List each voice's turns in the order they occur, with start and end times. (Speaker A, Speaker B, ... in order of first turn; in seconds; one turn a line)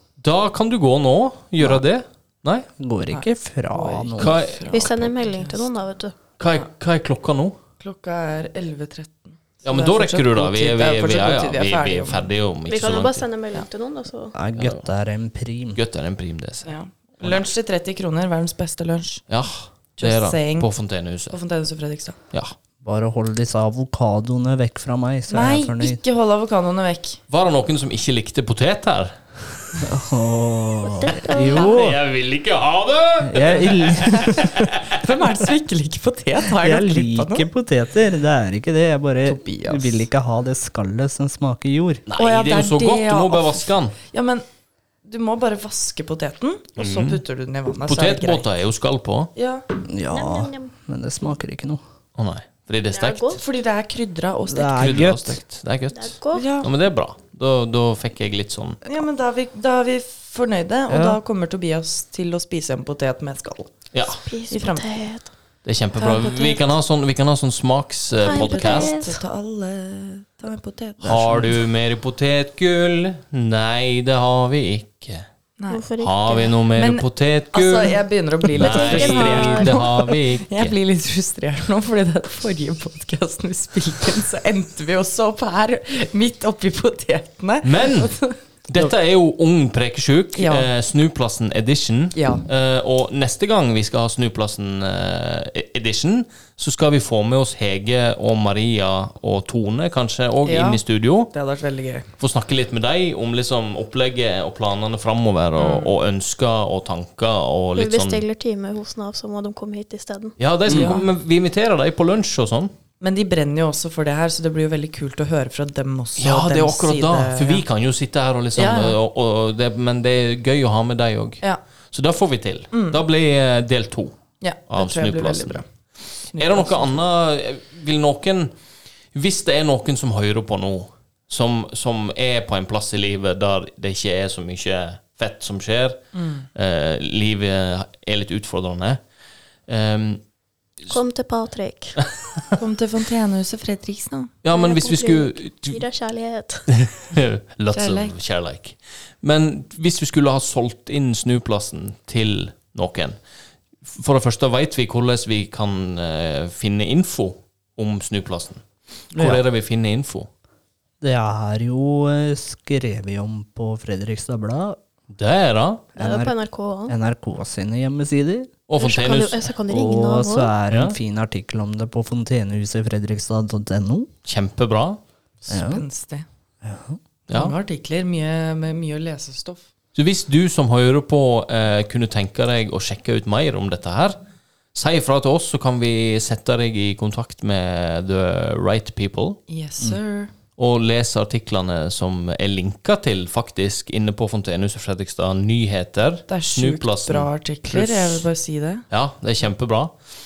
Speaker A: 0.2-2.7
Speaker B: 2.8-4.3
Speaker C: 3.1-5.6
Speaker A: 4.2-5.1
Speaker D: 4.7-6.1
Speaker A: 6.4-7.6
Speaker C: 7.8-12.3
Speaker A: 9.6-13.2
Speaker D: 12.7-14.3
Speaker B: 14.3-15.8
Speaker A: 14.6-14.8
Speaker A: 15.7-17.5
Speaker C: 16.6-19.2
Speaker A: 19.3-21.4
Speaker C: 20.0-20.7
Speaker C: 21.3-22.2
Speaker B: 22.8-26.0
Speaker C: 25.3-27.2
Speaker A: 27.3-29.9
Speaker B: 29.8-32.0
Speaker D: 30.9-31.7
Speaker A: 31.2-35.0
Speaker B: 33.2-34.5
Speaker C: 34.0-37.5
Speaker B: 36.6-42.0
Speaker C: 39.2-40.1
Speaker A: 42.1-44.0
Speaker C: 42.2-44.4
Speaker C: 45.0-48.5
Speaker A: 46.8-47.2
Speaker A: 47.9-49.3
Speaker C: 49.4-49.6
Speaker B: 49.9-51.8
Speaker D: 50.1-50.7
Speaker A: 52.1-53.4
Speaker D: 52.9-53.4
Speaker C: 53.3-55.1
Speaker B: 54.5-55.4
Speaker A: 54.8-58.8
Speaker D: 55.9-56.4
Speaker C: 56.3-56.7
Speaker C: 58.8-63.7
Speaker B: 60.9-61.2
Speaker A: 63.9-64.2
Speaker D: 64.2-65.3
Speaker C: 64.5-65.0
Speaker A: 65.6-69.0
Speaker C: 66.0-66.7
Speaker D: 68.2-69.2
Speaker C: 68.2-71.6
Speaker A: 71.0-75.2
Speaker D: 75.7-76.5
Speaker A: 76.0-80.7
Speaker C: 76.7-88.4
Speaker D: 78.5-79.8
Speaker A: 87.6-88.1
Speaker A: 88.7-101.3
Speaker C: 90.3-90.7
Speaker C: 92.1-92.4
Speaker C: 100.4-102.1
Speaker A: 102.2-108.2
Speaker C: 105.6-105.9
Speaker D: 107.8-110.3
Speaker A: 110.4-112.7
Speaker C: 110.7-111.1
Speaker C: 113.0-117.6
Speaker A: 116.2-124.2
Speaker C: 118.5-119.0
Speaker C: 122.7-123.0
Speaker C: 124.4-125.7
Speaker A: 124.7-125.6
Speaker A: 126.3-128.5
Speaker C: 126.3-127.0
Speaker A: 129.1-139.0
Speaker C: 136.1-136.5
Speaker A: 139.7-140.2
Speaker D: 140.9-142.0
Speaker A: 142.0-142.4
Speaker C: 142.6-144.3
Speaker A: 144.4-145.8
Speaker D: 144.5-146.7
Speaker A: 146.7-153.2
Speaker C: 147.7-148.2
Speaker A: 153.8-160.3
Speaker B: 159.2-159.4
Speaker B: 161.0-164.8
Speaker A: 165.1-165.9
Speaker D: 165.9-166.9
Speaker B: 166.0-166.3
Speaker B: 166.9-168.5
Speaker A: 168.7-169.5
Speaker D: 168.8-170.5
Speaker B: 169.7-174.1
Speaker A: 170.7-170.9
Speaker A: 174.2-175.0
Speaker C: 175.4-176.2
Speaker B: 175.5-175.8
Speaker B: 176.6-177.0
Speaker A: 177.3-177.6
Speaker C: 177.3-179.7
Speaker A: 179.9-184.2
Speaker A: 184.7-189.4
Speaker C: 189.5-190.3
Speaker A: 190.6-198.3
Speaker C: 196.3-198.8
Speaker A: 198.9-199.9